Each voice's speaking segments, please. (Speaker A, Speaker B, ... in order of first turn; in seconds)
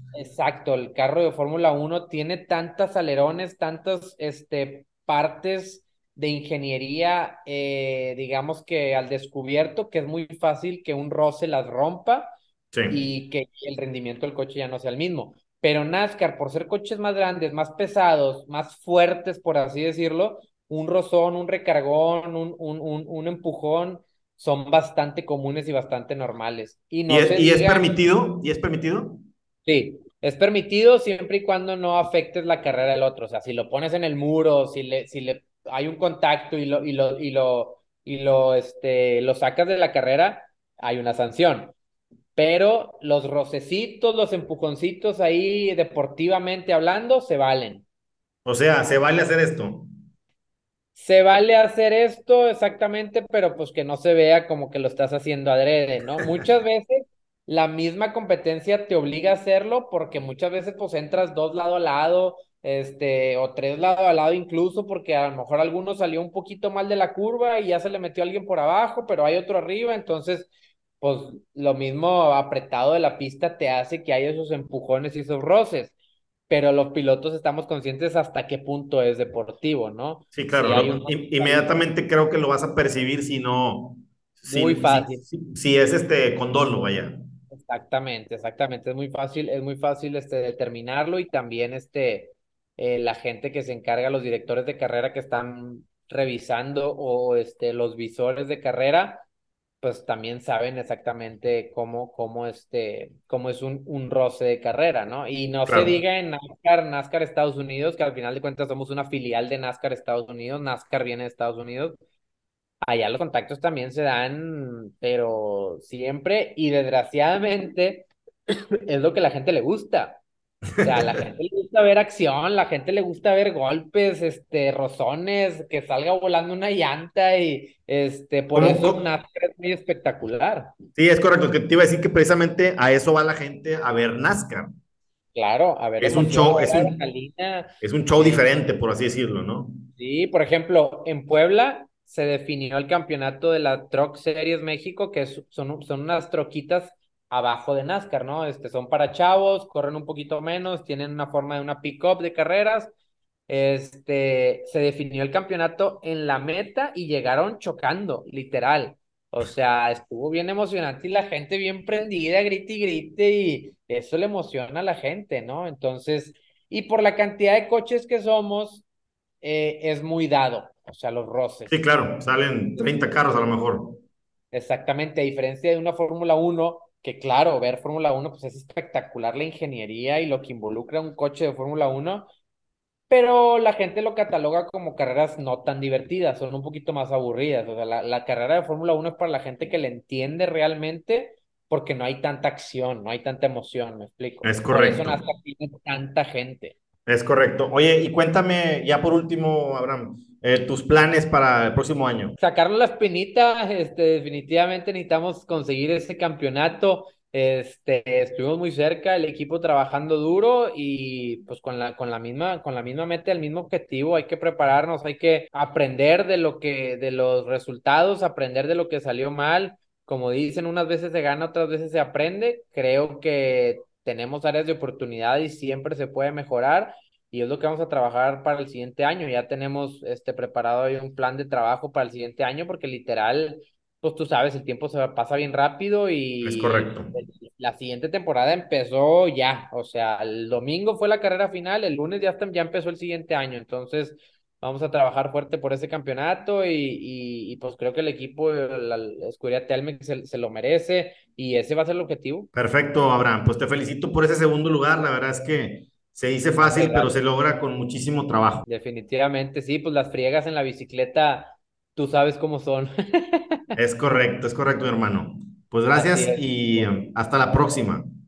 Speaker A: 0.1-12.3, 12.9-28.0, 29.7-41.7, 42.4-47.9, 51.0-70.5, 71.0-75.9, 76.5-81.8, 84.5-85.2, 87.5-99.2, 99.8-112.0, 112.8-120.2, 120.8-130.8, 135.3-138.5, 140.0-152.9, 153.5-168.8, 169.4-171.8, 174.5-182.3, 183.1-196.8, 202.4-252.5, 256.6-257.1, 258.7-263.8, 265.9-267.0
Speaker B: 12.7-13.0, 27.1-29.2, 48.5-49.9, 80.3-87.2, 105.7-106.0, 120.8-121.2, 128.5-129.0, 131.0-134.7, 136.0-137.0, 137.8-139.8, 171.7-174.0, 194.4-195.2, 197.1-202.4, 236.4-237.1, 252.5-258.6, 263.8-268.1